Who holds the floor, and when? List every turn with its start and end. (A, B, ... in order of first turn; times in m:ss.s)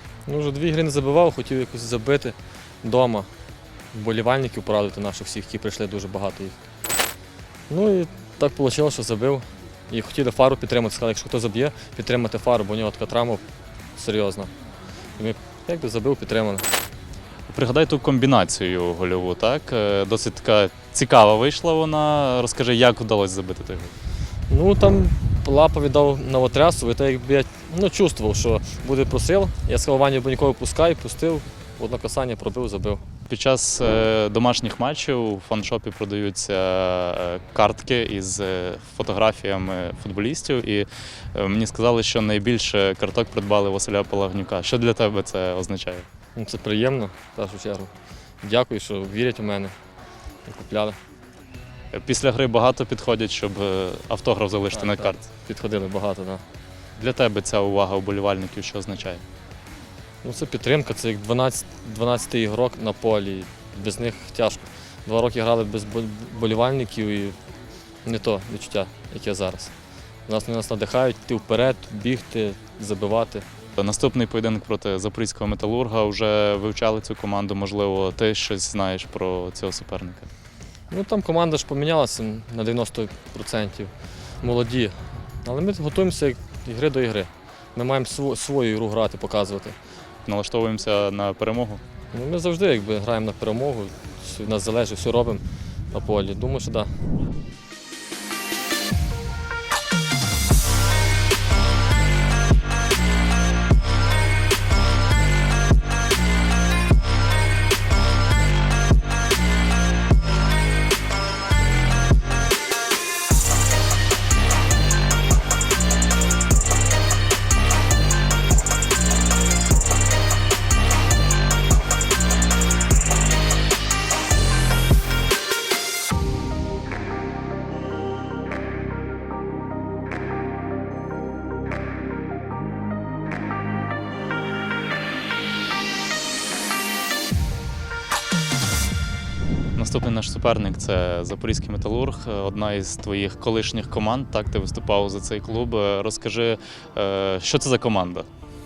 0:00.3-0:03.3 A
0:03.9-0:06.6 A
0:07.7-0:13.4 A
0:14.0-0:14.5 A
0:15.2-0:16.7 A
0:17.5-0:23.9 B
0:24.5-0:33.0 A
0:33.3-0:46.1 B
0:46.4-0:49.8 A
0:50.4-0:51.0 A
0:51.9-0:55.3 B
0:54.7-0:56.4 A
0:57.0-0:59.2 B
1:00.2-1:07.4 A
1:08.0-1:09.7 A
1:10.3-1:13.5 A
1:13.8-1:20.3 B
1:20.9-1:29.8 A
1:30.3-1:31.8 B
1:32.1-1:37.0 A
2:19.8-2:28.3 B